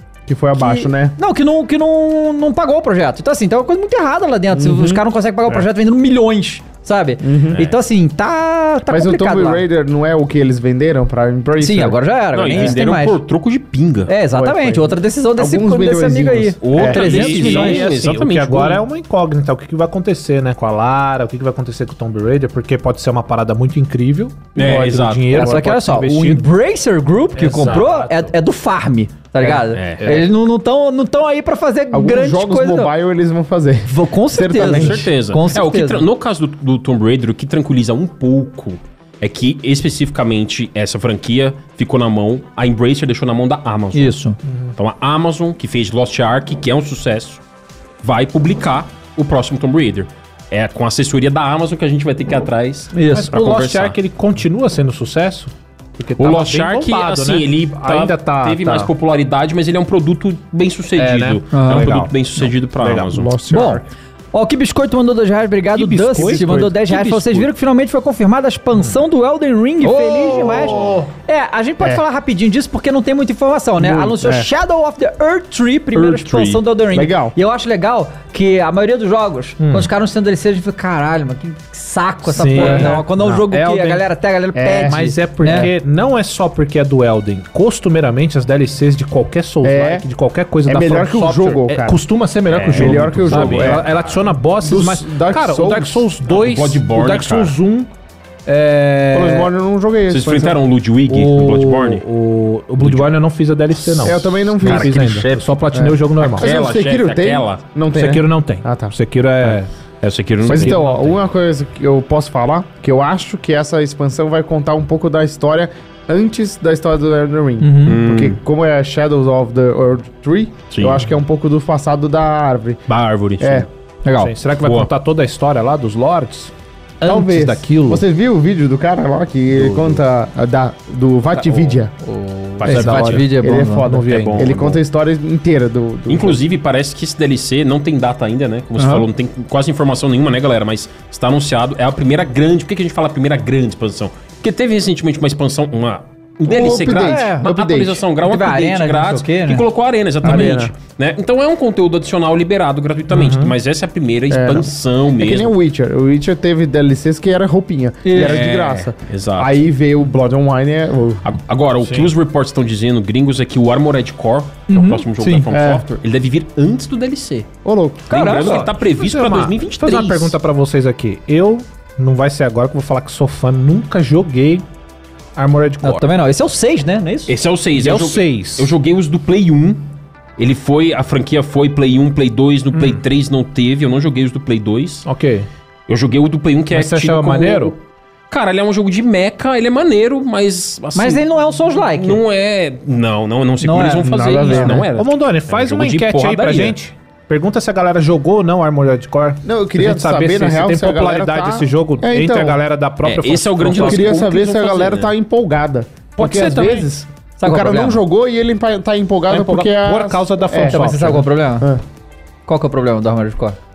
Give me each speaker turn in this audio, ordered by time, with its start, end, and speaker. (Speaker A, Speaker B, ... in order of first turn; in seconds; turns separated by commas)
Speaker A: 0.3-1.2, Speaker B: 0.6-9.6, Speaker A: 4.5-5.7, Speaker A: 7.2-7.7, Speaker A: 8.9-12.0, Speaker B: 11.6-13.2, Speaker C: 12.3-14.1, Speaker B: 14.1-18.1, Speaker A: 14.3-17.3, Speaker C: 16.6-18.9, Speaker D: 16.8-26.5, Speaker C: 24.6-25.3, Speaker A: 24.6-25.7, Speaker B: 25.3-32.9, Speaker D: 27.4-28.3, Speaker C: 29.7-30.2, Speaker D: 30.0-30.3, Speaker A: 31.9-35.1, Speaker B: 33.9-36.1, Speaker C: 34.5-44.2, Speaker B: 43.9-44.4, Speaker C: 44.8-47.4, Speaker C: 48.0-54.0, Speaker B: 52.9-53.3, Speaker D: 53.0-58.9, Speaker C: 56.2-63.3, Speaker D: 61.0-63.8, Speaker B: 61.5-61.9, Speaker A: 63.5-63.8, Speaker B: 63.5-85.7, Speaker D: 65.7-67.5, Speaker D: 69.8-71.1, Speaker A: 73.8-74.5, Speaker C: 75.9-76.6, Speaker A: 76.9-77.4, Speaker D: 79.6-79.9, Speaker D: 82.3-84.0, Speaker A: 82.5-83.0, Speaker A: 84.5-85.7, Speaker D: 84.7-97.9, Speaker A: 89.6-90.0, Speaker A: 90.7-92.0, Speaker C: 92.5-93.9, Speaker A: 92.7-93.9, Speaker A: 94.6-96.1, Speaker C: 96.3-97.6, Speaker D: 98.5-99.5, Speaker A: 99.1-100.6, Speaker C: 100.1-102.0, Speaker D: 101.1-106.5, Speaker C: 102.8-103.2, Speaker C: 103.8-105.5, Speaker A: 104.0-109.0, Speaker C: 106.2-108.2, Speaker D: 107.9-109.7, Speaker C: 109.4-111.1, Speaker D: 110.4-111.1, Speaker A: 110.4-122.8, Speaker B: 117.6-118.0, Speaker C: 117.8-118.4, Speaker C: 120.7-121.0, Speaker C: 122.9-123.7, Speaker A: 123.4-123.7, Speaker B: 124.0-124.3, Speaker D: 124.2-128.0, Speaker C: 124.6-124.9, Speaker A: 127.0-131.9, Speaker D: 129.6-130.0, Speaker D: 131.4-134.5, Speaker C: 132.6-133.2, Speaker B: 132.7-133.9, Speaker A: 132.7-136.4, Speaker C: 134.1-134.8, Speaker C: 136.1-155.5, Speaker B: 138.8-139.1, Speaker A: 146.5-148.0, Speaker B: 146.7-147.5, Speaker B: 148.2-149.7, Speaker A: 150.2-150.7, Speaker D: 153.1-153.6, Speaker A: 154.3-161.3, Speaker B: 158.0-158.4, Speaker C: 158.1-159.6, Speaker C: 161.2-167.5, Speaker D: 161.8-162.1, Speaker B: 164.7-165.5, Speaker A: 165.5-165.9, Speaker A: 167.7-168.3, Speaker B: 168.1-168.7, Speaker C: 168.1-170.4, Speaker D: 168.3-174.7, Speaker D: 175.4-176.1, Speaker B: 175.8-177.4, Speaker C: 177.3-179.8, Speaker D: 177.8-178.7, Speaker C: 180.4-185.1, Speaker D: 185.1-185.5, Speaker C: 185.9-187.8, Speaker D: 186.7-187.8, Speaker C: 188.3-191.2, Speaker B: 190.9-192.2, Speaker C: 191.8-196.8, Speaker B: 193.6-194.7, Speaker A: 194.0-194.9, Speaker D: 195.0-204.1, Speaker A: 199.4-202.6, Speaker C: 203.0-205.1, Speaker A: 203.7-211.8, Speaker D: 206.2-206.9, Speaker B: 207.4-208.0, Speaker D: 209.3-211.3, Speaker B: 210.6-211.7, Speaker B: 212.5-213.6